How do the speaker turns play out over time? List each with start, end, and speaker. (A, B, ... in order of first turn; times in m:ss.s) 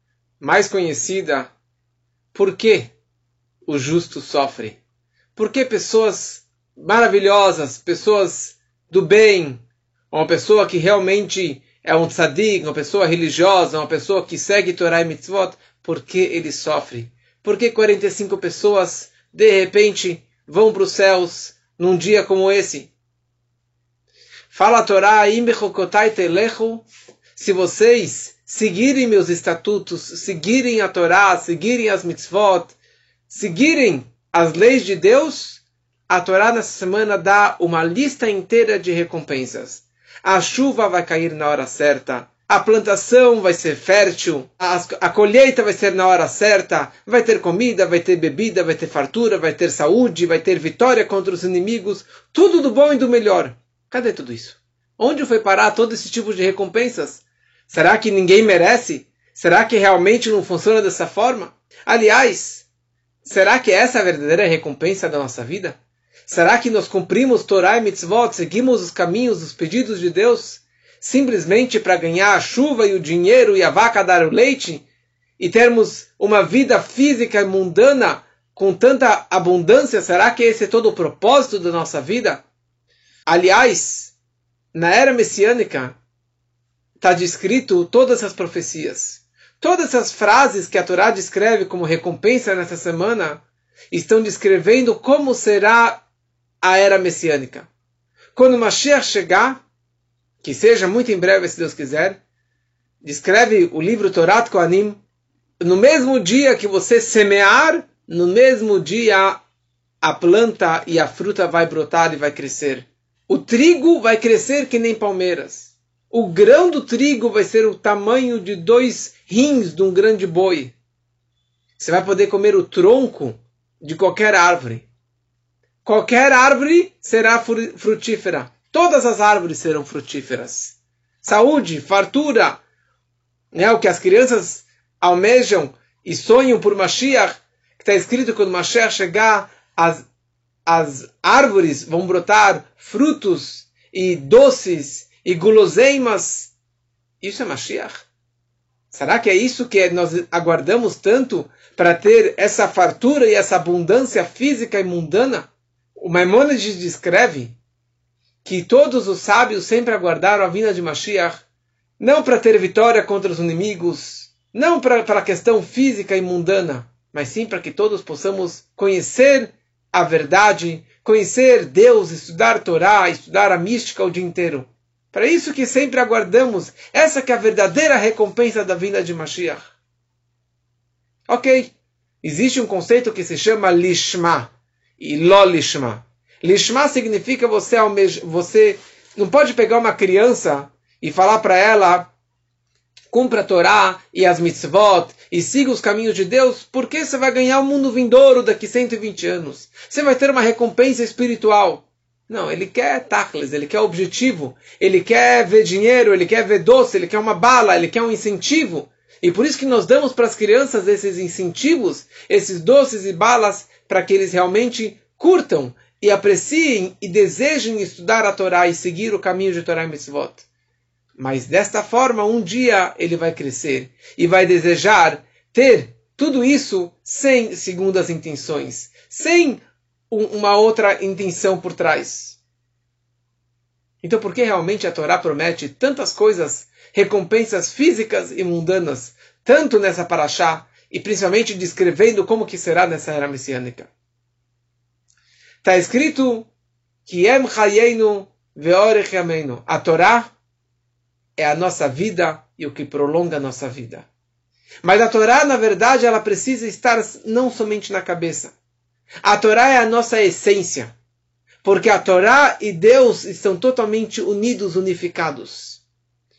0:00.4-0:01.5 A
0:02.3-0:02.9 A
0:03.6-0:04.8 A
0:05.4-0:09.6 A
0:10.1-0:22.9 A
0:24.5-0:32.8 A
0:33.3-1:02.6 A
1:03.2-1:14.8 A
1:15.4-1:22.4 A
1:23.3-1:24.1 A
1:24.7-1:25.9 A
1:27.0-1:36.0 A
1:36.6-1:37.7 A
1:38.3-1:39.6 A
1:40.4-1:42.2 A
1:43.0-1:45.0 A
1:45.6-1:49.4 A
1:50.0-2:00.7 A
2:01.8-2:04.8 A
2:05.8-2:12.6 A
2:13.5-2:20.0 A
2:20.6-2:26.5 A
2:27.2-2:28.0 A
2:28.9-2:37.5 A
2:38.4-2:41.4 A
2:42.0-2:59.7 A
3:01.3-3:01.7 A
3:02.2-3:12.1 A
3:13.1-3:40.5 A
3:41.2-3:52.4 A
3:54.0-4:03.9 A
4:05.6-4:06.5 A
4:07.0-4:10.3 A
4:11.4-4:14.0 A
4:14.8-4:18.5 A
4:19.2-4:20.9 A
4:21.6-4:25.8 A